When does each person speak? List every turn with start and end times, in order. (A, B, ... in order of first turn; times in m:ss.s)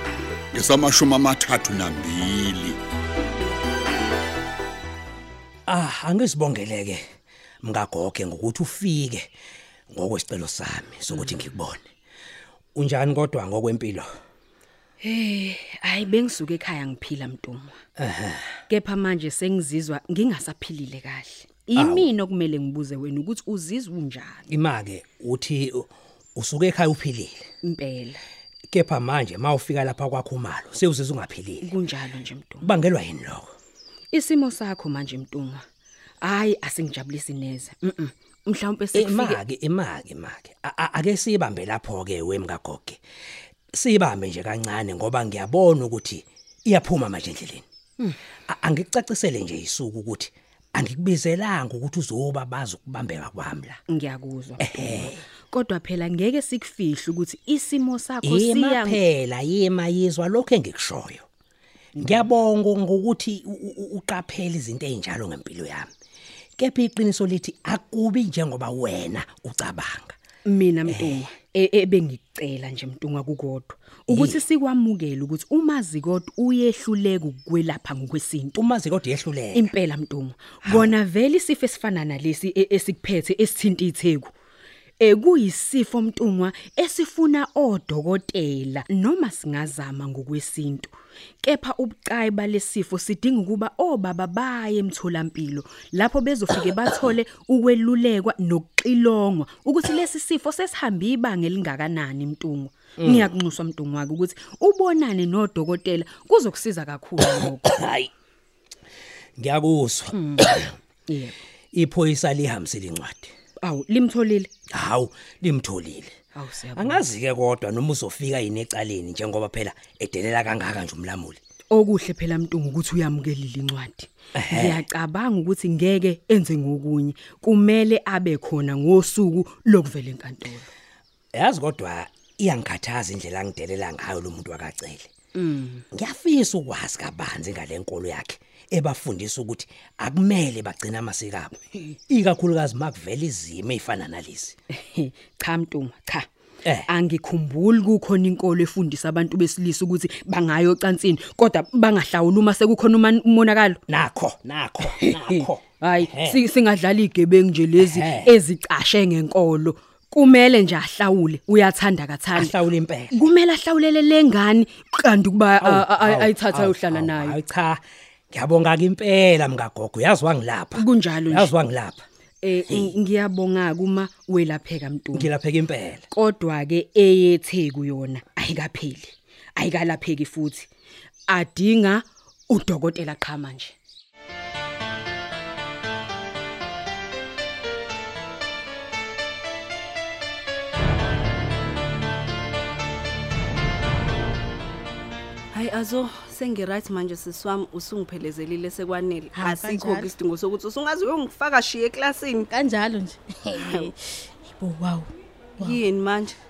0:00.5-0:02.8 A
0:05.7-0:07.0 B
0:07.6-0:09.3 B
0:09.9-0:11.8 B
0:12.8-0:14.1 B
0:15.0-0:17.8 C
0:18.0-0:18.6 B
0:18.7-0:24.4 C
0:21.8-0:22.1 B
0:24.5-0:27.4 B
0:27.6-0:28.2 C
0:28.7-0:31.8 B
0:31.6-0:32.7 C
0:32.6-0:33.5 B
0:34.1-0:35.6 C
0:36.2-0:39.4 C
0:39.0-0:43.0 B
0:43.7-0:47.6 B
0:48.5-0:53.8 B
0:53.9-0:59.0 C
0:54.6-0:55.3 B
0:58.2-1:01.2 B
1:02.0-1:02.3 C
1:02.0-1:05.9 B
1:06.6-1:10.1 B
1:10.4-1:18.6 C
1:10.9-1:11.2 B
1:14.1-1:14.4 B
1:18.6-1:19.7 B
1:19.6-1:24.3 C
1:20.6-1:20.9 B
1:25.0-1:47.7 C
1:43.0-1:43.4 B
1:47.2-1:48.1 B
1:49.4-1:50.8 B
1:50.1-1:51.4 C
1:51.7-1:53.3 B
1:53.6-1:54.5 C
1:54.7-1:56.2 B
1:56.4-1:57.0 C
1:56.8-2:01.4 B
2:01.7-2:10.7 C
2:04.4-2:04.8 B
2:11.3-2:15.1 B
2:15.4-2:15.8 C
2:15.9-2:21.6 B
2:22.1-2:24.6 B
2:24.7-2:26.3 C
2:26.9-2:33.8 C
2:33.9-2:36.4 B
2:34.9-2:42.5 C
2:37.8-2:38.3 B
2:42.3-2:43.2 B
2:43.1-2:47.4 C
2:45.6-2:52.0 B
2:50.8-2:51.5 C
2:52.4-2:55.3 C
2:52.7-2:53.0 B
2:55.1-2:56.0 B
2:56.1-3:00.7 C
3:01.3-3:03.8 C
3:15.5-3:22.5 D
3:19.3-3:20.1 E
3:22.5-3:25.1 E
3:23.5-3:23.9 D
3:25.6-3:26.3 D